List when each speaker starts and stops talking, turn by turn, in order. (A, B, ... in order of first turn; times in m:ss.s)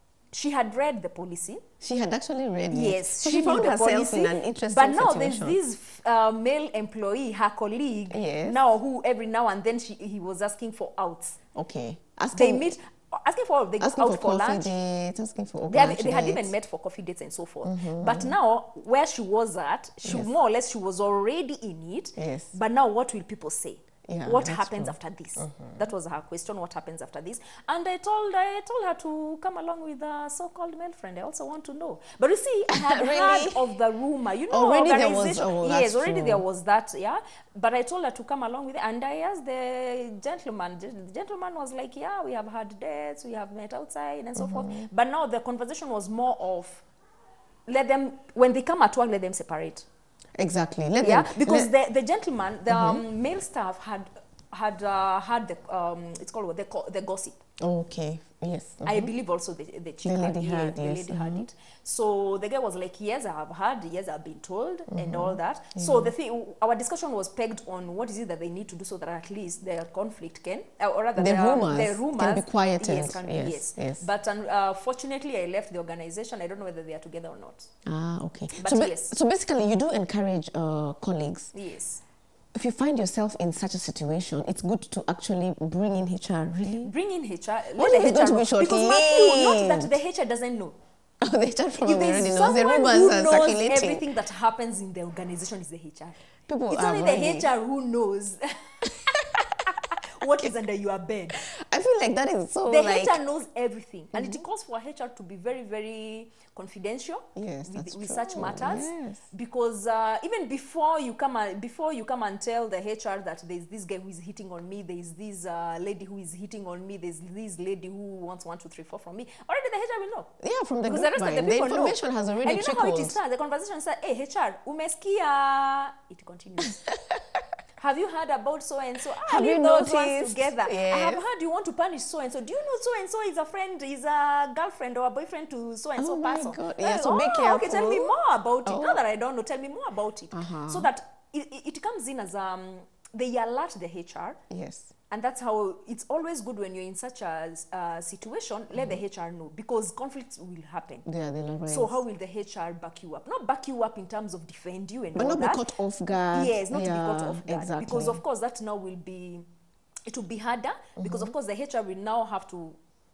0:00.3-0:01.6 A
0:01.8-0:05.6 B
0:02.7-0:11.4 A
0:08.1-0:08.6 B
0:11.5-0:12.7 B
0:12.3-0:14.7 A
0:13.8-0:16.5 B
0:15.7-0:46.8 A
0:17.6-0:18.4 B
0:20.0-0:20.3 B
0:22.2-0:22.5 B
0:24.1-0:25.8 B
0:32.7-0:33.8 B
0:34.5-0:36.4 B
0:44.4-0:44.9 B
0:47.7-0:49.8 A
0:50.4-0:51.7 B
0:51.0-0:57.4 A
0:52.7-0:53.0 B
0:57.6-0:59.1 B
0:58.8-1:17.7 A
1:00.0-1:01.5 B
1:04.9-1:06.1 B
1:11.2-1:14.0 B
1:17.8-1:21.5 B
1:18.6-1:19.1 A
1:21.5-1:22.0 A
1:22.5-1:26.9 B
1:26.8-1:30.7 A
1:27.8-1:30.0 B
1:31.2-1:34.0 B
1:31.8-1:41.4 A
1:36.5-1:37.5 B
1:38.8-1:40.5 B
1:41.3-1:43.2 B
1:42.7-2:00.3 A
1:44.1-1:44.4 B
1:47.3-1:49.2 B
2:00.4-2:03.2 B
2:00.8-2:06.8 A
2:06.6-2:07.4 B
2:07.8-2:24.4 A
2:09.2-2:11.3 B
2:16.0-2:19.0 B
2:20.3-2:20.9 B
2:24.5-2:24.9 B
2:25.1-2:31.0 A
2:28.7-2:29.0 B
2:31.0-2:32.0 B
2:31.7-2:35.6 A
2:35.1-2:38.2 B
2:36.3-2:39.4 A
2:40.0-2:42.8 A
2:41.0-2:41.3 B